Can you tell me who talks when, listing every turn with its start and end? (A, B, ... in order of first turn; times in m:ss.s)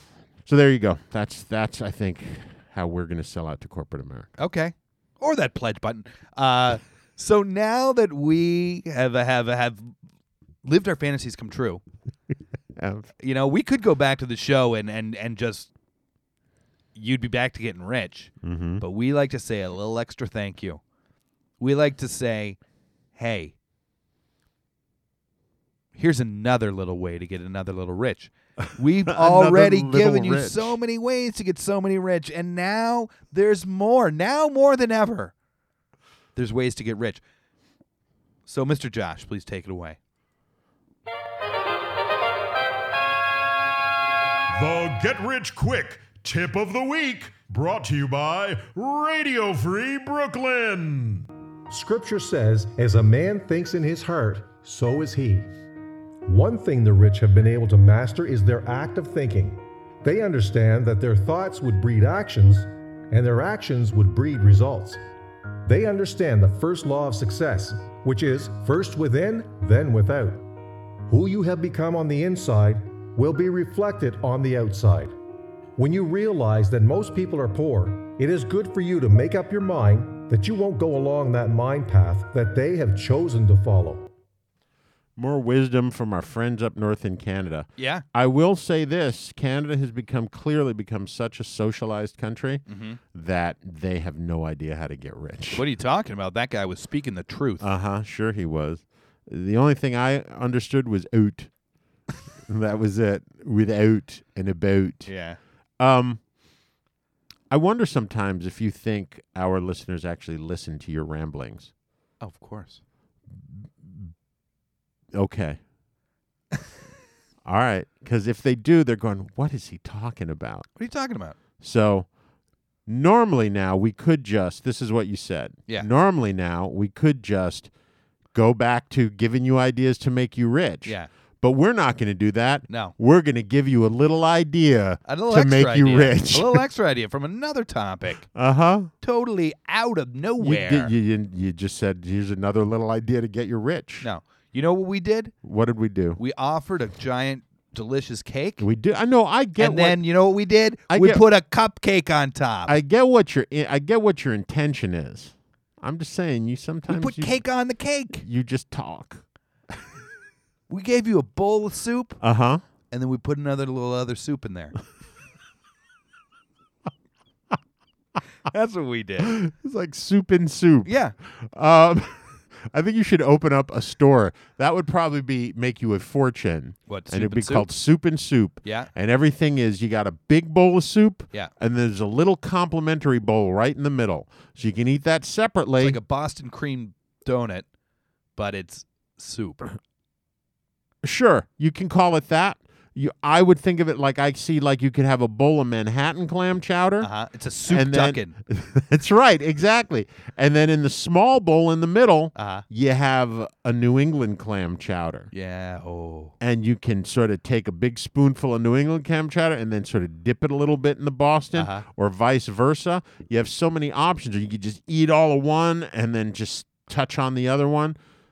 0:00.4-0:04.3 A
0:04.4-0:09.9 B
0:10.6-0:11.8 B
0:12.8-0:13.1 A
0:13.2-0:15.7 B
0:17.0-0:20.8 B
0:18.4-0:18.8 A
0:21.6-0:22.6 B
0:23.2-0:23.5 B
0:26.0-0:35.3 B
0:29.1-0:30.8 A
0:36.4-0:37.2 B
0:38.5-0:40.0 B
0:44.5-0:51.3 C
0:51.7-0:55.5 D
0:56.3-1:05.0 D
1:05.7-1:10.5 D
1:11.1-1:15.2 D
1:15.8-1:24.1 D
1:25.2-1:35.6 A
1:27.8-1:28.0 B
1:32.7-1:33.0 B
1:35.5-1:37.6 B
1:37.6-1:41.5 A
1:42.4-1:45.1 A
1:45.1-1:45.4 B
1:45.8-1:46.2 A
1:47.5-1:51.7 A
1:52.2-1:52.8 B
1:53.5-1:54.1 A
1:55.1-1:55.6 A
1:57.4-2:00.7 A
2:00.8-2:01.4 B
2:01.6-2:02.1 A
2:02.9-2:07.7 A
2:08.3-2:16.6 A
2:12.7-2:12.9 B
2:15.1-2:18.3 B
2:18.3-2:18.9 A
2:19.0-2:20.9 B
2:20.4-2:24.1 A
2:24.0-2:25.3 B
2:25.4-2:26.2 A
2:26.2-2:28.6 B
2:28.6-2:30.0 A
2:29.6-2:32.8 B
2:30.9-2:31.2 A
2:32.7-2:37.4 A
2:36.9-2:38.2 B
2:38.2-2:39.2 A
2:40.7-2:42.2 B
2:42.2-2:42.6 A
2:42.9-2:44.8 B
2:48.5-2:49.4 B
2:49.2-3:06.0 A
2:50.8-2:51.2 B
2:56.9-2:57.7 B
2:58.6-2:58.9 B
3:05.8-3:07.7 B
3:08.4-3:09.7 B
3:11.0-3:17.1 A
3:17.0-3:18.4 B
3:17.7-3:25.3 A
3:22.4-3:22.6 B
3:25.3-3:26.3 B
3:26.4-3:38.0 A
3:31.5-3:31.9 B